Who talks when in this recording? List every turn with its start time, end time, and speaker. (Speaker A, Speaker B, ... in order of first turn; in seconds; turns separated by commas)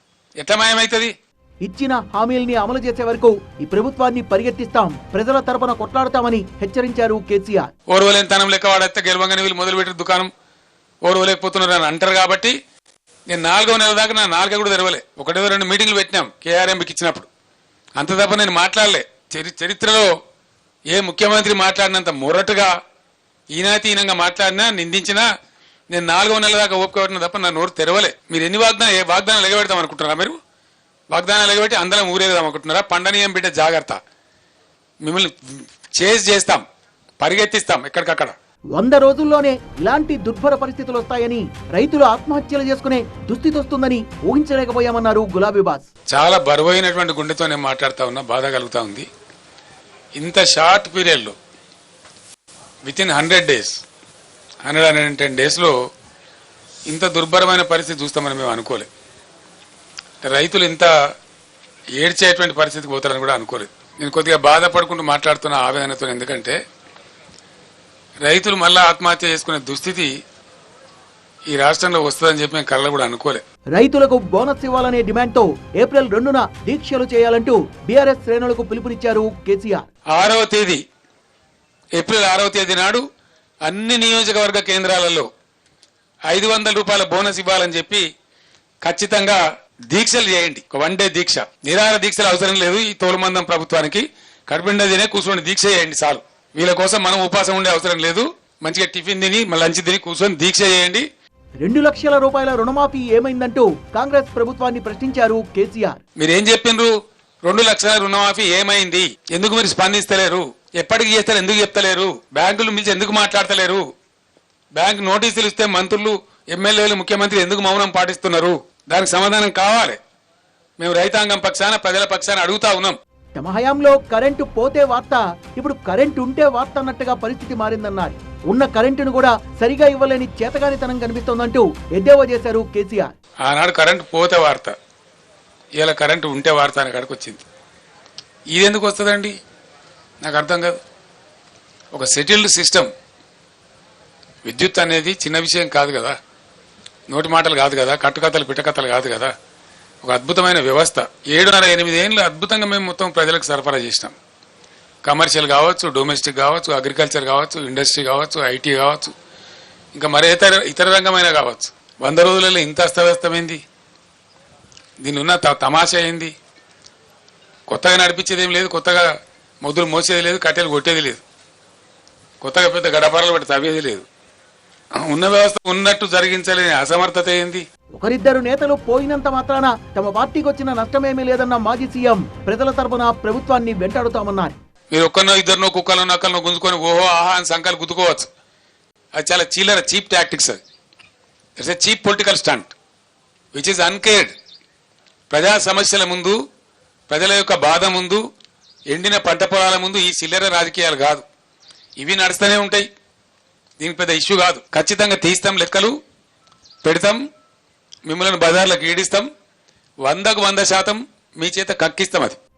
Speaker A: 0.4-1.1, Speaker B: 1.6-7.7, Speaker A: 7.9-10.3, Speaker A: 11.0-12.5, Speaker A: 13.3-17.3, Speaker A: 18.0-20.1, Speaker A: 20.9-22.7, Speaker A: 23.5-25.2, Speaker A: 25.9-30.4, Speaker A: 31.1-34.0, Speaker A: 35.0-36.6, Speaker A: 37.2-38.4, Speaker B: 38.8-45.9, Speaker A: 46.1-49.1, Speaker A: 50.1-51.3, Speaker A: 52.8-53.8, Speaker A: 54.6-55.8, Speaker A: 56.9-58.9, Speaker A: 60.2-60.9, Speaker A: 62.0-66.6, Speaker A: 68.2-70.1, Speaker A: 71.5-73.4, Speaker B: 73.7-79.8, Speaker A: 80.1-80.8, Speaker A: 82.0-83.0, Speaker A: 83.7-85.3, Speaker A: 86.3-88.0, Speaker A: 88.8-101.0, Speaker B: 101.6-106.0, Speaker A: 106.2-106.9, Speaker A: 107.4-113.8, Speaker A: 114.7-120.0, Speaker A: 120.8-123.0, Speaker B: 123.3-133.1, Speaker A: 133.4-134.8, Speaker A: 135.8-137.4, Speaker A: 138.5-139.3, Speaker A: 140.2-140.8, Speaker A: 141.9-142.9, Speaker A: 144.4-146.2, Speaker A: 147.1-149.3, Speaker A: 150.0-154.2, Speaker A: 155.0-159.1, Speaker A: 159.9-163.6, Speaker A: 165.0-166.3, Speaker A: 167.7-169.1, Speaker A: 169.6-171.2, Speaker A: 172.4-174.0, Speaker A: 175.0-177.6, Speaker B: 178.0-184.6, Speaker A: 184.9-188.3, Speaker A: 189.2-190.6, Speaker A: 191.6-192.7, Speaker A: 193.5-194.3, Speaker A: 195.3-196.3, Speaker A: 197.1-198.2, Speaker A: 198.9-201.2, Speaker A: 202.0-202.8, Speaker A: 203.8-205.9, Speaker A: 206.8-207.2, Speaker A: 208.1-209.3, Speaker A: 210.0-212.4